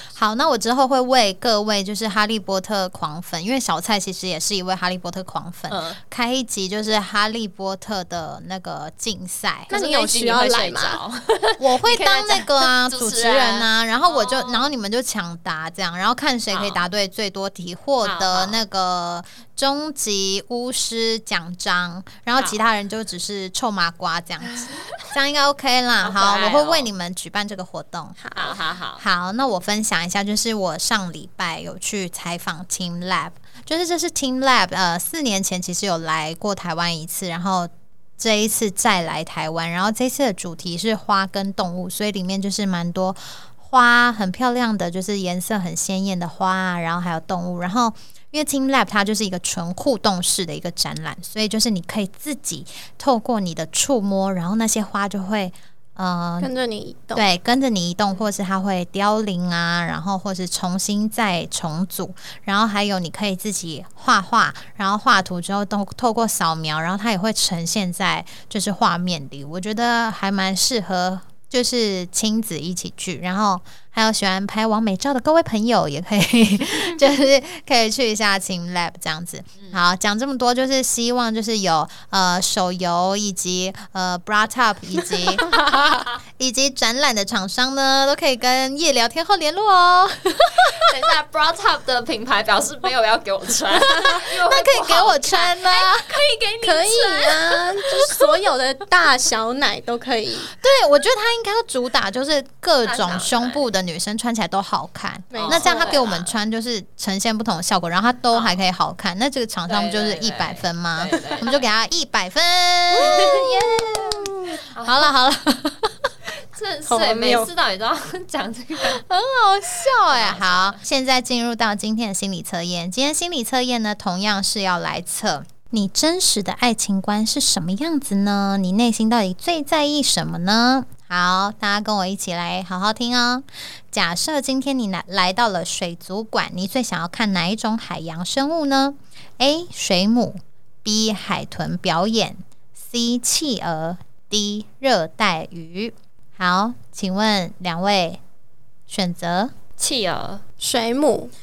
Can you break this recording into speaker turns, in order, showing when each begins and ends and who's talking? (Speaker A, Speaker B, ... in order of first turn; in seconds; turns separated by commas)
Speaker A: 0.1-9.7, Speaker B: 5.7-6.0, Speaker C: 9.7-11.0, Speaker B: 9.7-14.7, Speaker A: 11.6-28.2, Speaker B: 16.5-16.8, Speaker B: 18.0-18.6, Speaker B: 24.5-25.1, Speaker B: 26.0-26.9, Speaker C: 28.2-28.6, Speaker B: 28.3-29.0, Speaker A: 29.0-56.5, Speaker C: 56.4-57.2, Speaker A: 57.1-85.6, Speaker B: 85.4-86.2, Speaker A: 86.4-91.1, Speaker B: 90.7-97.6, Speaker A: 93.9-96.1, Speaker C: 96.6-100.5, Speaker A: 100.5-116.1, Speaker B: 102.8-103.7, Speaker C: 105.3-106.0, Speaker B: 105.3-106.3, Speaker B: 108.3-108.6, Speaker B: 109.7-111.6, Speaker C: 112.9-114.0, Speaker B: 113.0-113.8, Speaker B: 114.7-115.1, Speaker B: 116.5-119.0, Speaker C: 116.9-117.5, Speaker A: 118.8-148.2, Speaker B: 120.1-120.8, Speaker A: 148.9-149.5, Speaker B: 149.8-150.4, Speaker C: 150.6-151.3